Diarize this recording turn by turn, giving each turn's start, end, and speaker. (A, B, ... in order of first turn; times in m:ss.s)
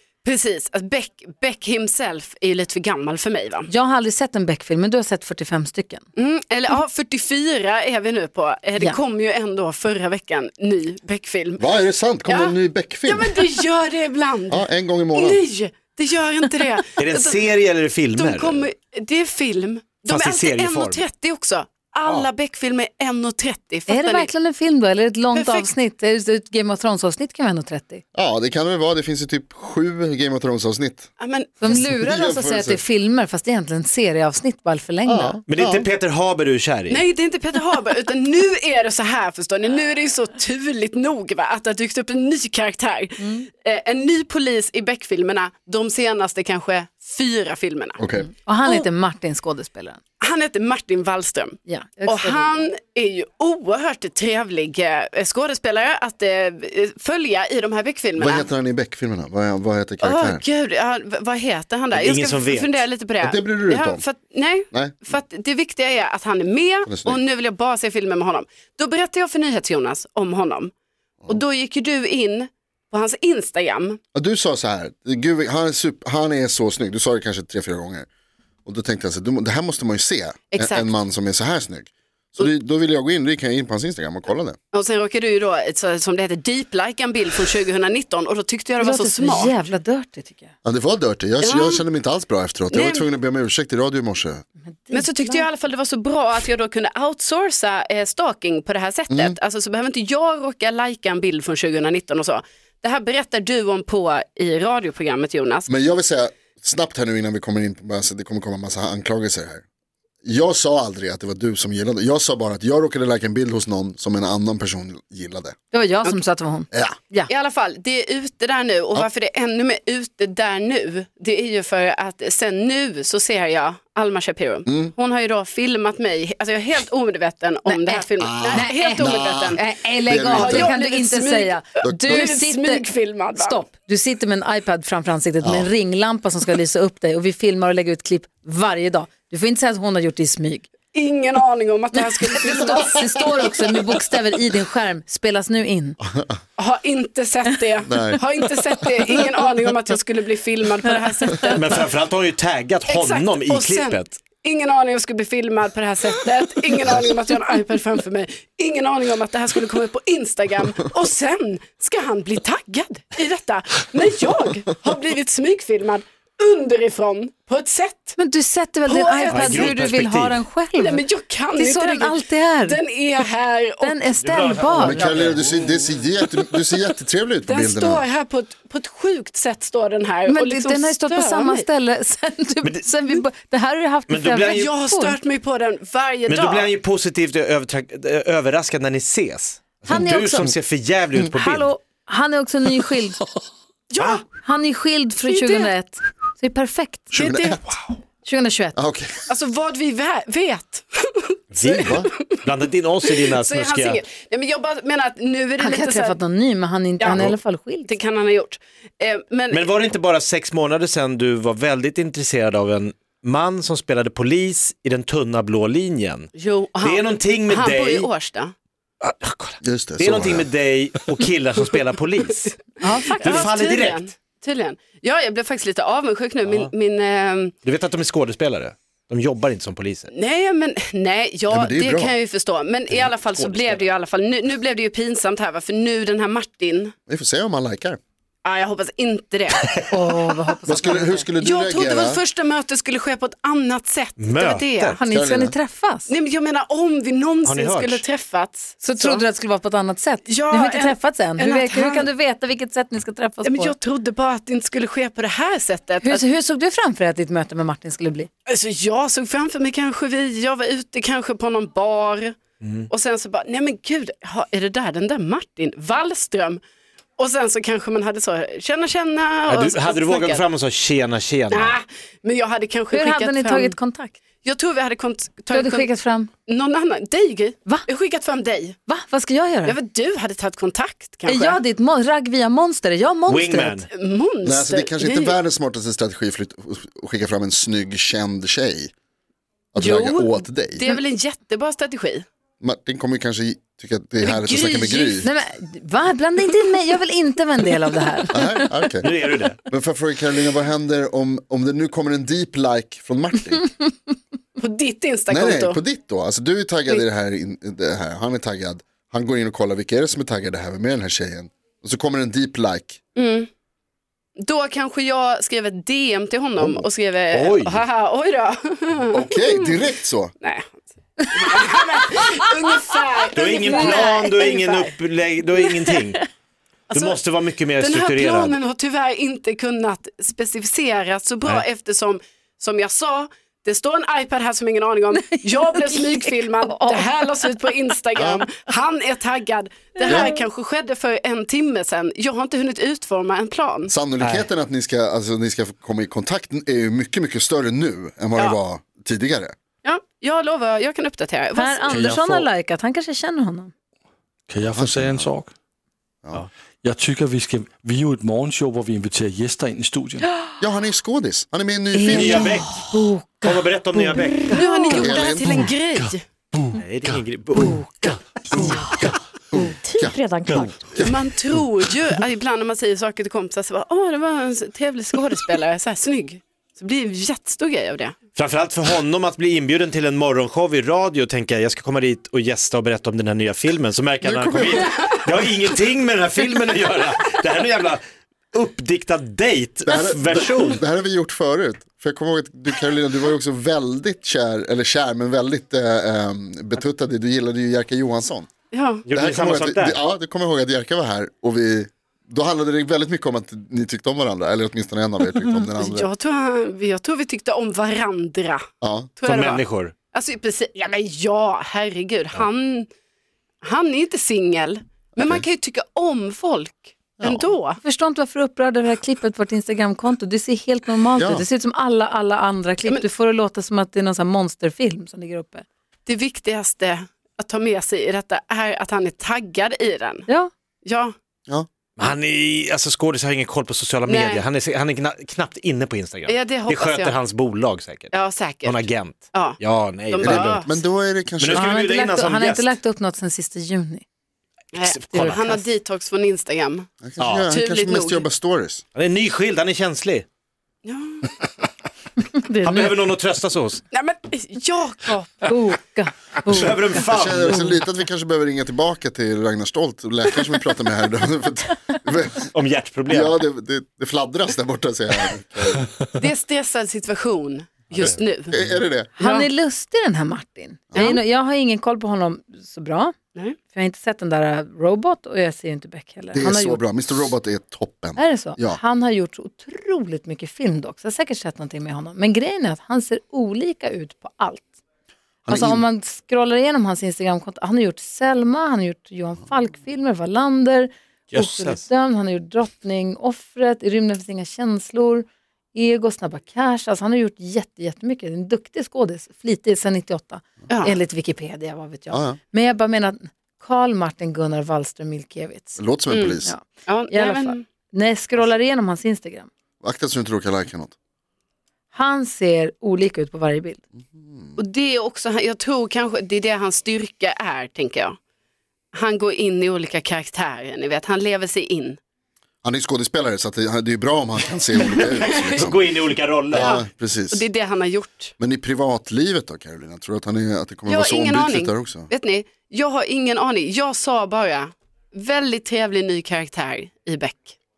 0:00.2-0:03.7 A
0:03.7-0:06.0 B
0:06.2-0:11.6 A
0:11.6-0:13.4 C
0:12.3-0:17.4 A
0:14.5-0:15.4 C
0:17.0-0:18.7 D
0:18.2-0:24.3 A
0:20.1-0:21.0 D
0:23.9-0:28.0 B
0:25.3-0:25.7 A
0:28.1-0:31.1 C
0:31.2-0:31.6 A
0:31.6-0:35.4 B
0:31.6-0:32.8 C
0:35.0-0:35.9 C
0:35.5-0:37.0 D
0:36.9-0:48.0 A
0:43.2-0:43.4 B
0:48.0-0:48.3 C
0:48.1-0:50.0 B
0:50.2-0:58.5 A
0:51.6-0:52.7 B
0:58.2-1:00.4 C
1:00.0-1:10.7 A
1:01.9-1:02.8 D
1:03.2-1:04.0 C
1:04.7-1:05.0 C
1:06.8-1:07.2 C
1:11.3-1:14.0 A
1:14.1-1:18.0 C
1:18.6-1:24.6 C
1:20.5-1:20.9 A
1:24.7-1:29.5 A
1:28.8-1:30.5 B
1:30.6-1:34.4 C
1:31.4-1:31.8 A
1:32.7-1:33.0 A
1:34.7-1:35.4 B
1:34.9-1:45.7 A
1:39.1-1:39.4 C
1:45.7-1:49.6 C
1:50.2-1:55.6 C
1:55.7-1:57.3 B
1:57.3-2:09.6 A
2:04.6-2:04.9 C
2:07.6-2:20.7 B
2:08.2-2:10.7 C
2:10.3-2:13.6 A
2:15.4-2:15.7 C
2:20.9-2:23.3 A
2:21.9-2:26.0 B
2:26.6-2:31.9 A
2:27.9-2:28.2 C
2:31.5-2:34.2 D
2:32.9-2:48.2 A
2:48.2-2:51.0 B
2:48.9-2:49.8 A
2:49.3-2:50.4 D
2:50.8-2:54.0 A
2:51.5-2:52.8 B
2:53.8-2:55.1 B
2:54.2-2:55.9 D
2:54.8-2:58.0 C
2:57.4-3:01.6 A
3:00.2-3:05.2 B
3:04.1-3:04.7 D
3:04.4-3:06.7 A
3:06.3-3:11.7 D
3:09.8-3:10.6 B
3:11.3-3:13.2 B
3:13.9-3:14.2 A
3:14.0-3:14.2 D
3:14.4-3:17.1 B
3:15.3-3:15.7 A
3:17.1-3:17.7 C
3:17.1-3:17.6 A
3:18.2-3:18.8 B
3:18.7-3:19.2 C
3:19.3-3:22.4 A
3:21.5-3:24.0 D
3:21.6-3:22.1 C
3:23.1-3:26.2 A
3:25.6-3:28.0 B
3:27.0-3:27.3 A
3:27.9-3:29.6 A
3:29.5-3:38.1 D
3:36.4-3:38.5 A
3:39.0-3:44.1 D
3:39.6-3:40.5 C
3:42.8-3:43.5 B
3:43.2-3:47.5 A
3:47.6-3:50.1 D
3:50.1-3:56.9 A
3:51.5-3:52.1 C
3:52.9-3:53.8 D
3:57.1-3:58.0 C
3:58.4-3:59.6 A
3:59.9-4:01.3 B
4:00.6-4:02.2 C
4:01.4-4:05.0 A
4:04.2-4:05.0 D
4:04.9-4:06.1 B
4:05.1-4:05.5 C
4:06.1-4:09.2 A
4:07.4-4:08.0 D
4:08.8-4:13.7 B
4:10.3-4:12.1 A
4:13.4-4:16.2 A
4:16.0-4:18.3 B
4:18.5-4:22.4 A
4:22.6-4:22.9 D
4:22.9-4:26.6 A
4:27.2-4:30.4 A
4:29.5-4:31.8 D
4:31.5-4:33.7 A
4:32.9-4:34.1 B
4:34.4-4:35.9 A
4:35.5-4:36.3 B
4:36.5-4:38.8 A
4:38.9-4:39.8 B
4:39.6-4:41.6 A
4:41.2-4:43.8 B
4:43.3-4:43.9 D
4:43.9-4:45.3 A
4:44.4-4:48.9 C
4:49.7-4:50.8 C
4:49.8-4:52.2 A
4:52.6-4:55.3 C
4:54.2-4:55.2 A
4:55.2-4:58.7 B
4:58.3-4:59.1 C
4:59.0-4:59.6 D
4:59.7-5:03.7 C
5:04.6-5:05.8 A
5:05.3-5:13.0 C
5:13.2-5:13.5 A
5:14.4-5:19.8 A
5:17.3-5:17.8 D
5:19.1-5:20.3 C
5:20.4-5:20.8 A
5:21.3-5:24.9 A
5:23.3-5:26.2 D
5:26.9-5:27.2 A
5:26.9-5:28.6 D
5:27.8-5:43.9 A
5:35.3-5:37.3 B
5:38.2-5:38.4 C
5:40.0-5:40.3 B
5:43.9-5:49.5 C
5:44.2-5:44.5 E
5:49.8-5:52.0 A
5:51.5-5:53.7 B
5:51.9-5:52.5 E
5:54.5-5:55.5 E
5:54.7-5:55.3 C
5:56.8-6:00.3 E
6:00.6-6:02.6 C
6:01.9-6:05.1 B
6:02.1-6:02.9 D
6:03.4-6:04.5 D
6:04.5-6:06.2 A
6:04.9-6:05.6 C
6:05.6-6:07.2 E
6:06.8-6:07.8 D
6:07.6-6:09.7 B
6:08.0-6:09.1 E
6:09.5-6:10.2 C
6:10.5-6:10.8 D
6:10.9-6:11.2 C
6:11.0-6:18.2 A
6:18.3-6:28.0 D
6:24.2-6:25.2 C
6:28.5-6:30.8 D
6:29.8-6:38.5 C
6:38.7-6:39.0 A
6:39.0-6:40.0 D
6:39.1-6:46.1 C
6:45.8-6:48.6 A
6:48.8-6:49.1 C
6:49.2-6:52.9 A
6:49.2-6:50.0 D
6:53.6-6:57.8 A
6:55.2-6:55.4 C
6:57.2-6:57.5 C
6:57.8-7:05.6 B
7:01.2-7:01.4 C
7:06.0-7:10.2 A
7:10.8-7:11.1 A
7:12.0-7:20.6 D
7:14.1-7:14.4 A
7:16.2-7:17.2 A
7:18.1-7:20.7 A
7:20.2-7:21.7 C
7:21.4-7:22.7 D
7:21.5-7:24.0 B
7:24.7-7:26.9 A
7:24.8-7:25.4 D
7:25.1-7:25.6 B
7:27.0-7:28.8 C
7:27.2-7:27.5 D
7:27.5-7:28.2 A
7:28.9-7:30.2 D
7:30.8-7:31.3 A
7:32.2-7:33.0 B
7:32.6-7:33.8 D
7:33.9-7:35.5 A
7:35.4-7:37.1 B
7:36.4-7:37.8 D
7:36.6-7:42.5 C
7:42.5-7:43.4 D
7:43.1-7:45.8 C
7:46.2-7:49.5 A
7:48.5-7:49.1 C
7:49.2-7:53.1 B
7:50.9-7:51.2 C
7:53.7-7:56.9 B
7:56.3-7:58.8 C
7:58.2-8:04.7 B
8:05.4-8:05.8 C
8:05.5-8:25.8 B
8:11.3-8:11.8 D
8:20.7-8:20.9 A
8:22.1-8:22.4 C
8:25.8-8:26.5 C
8:26.1-8:27.6 A
8:26.4-8:29.5 B
8:29.8-8:30.9 C
8:31.9-8:33.8 B
8:34.1-8:34.6 C
8:34.6-8:38.2 A
8:38.9-8:42.0 A
8:42.6-8:45.9 C
8:44.9-8:45.7 A
8:44.9-8:46.8 D
8:46.5-8:47.5 C
8:46.5-8:48.3 A
8:48.4-8:52.1 C
8:50.9-8:57.6 A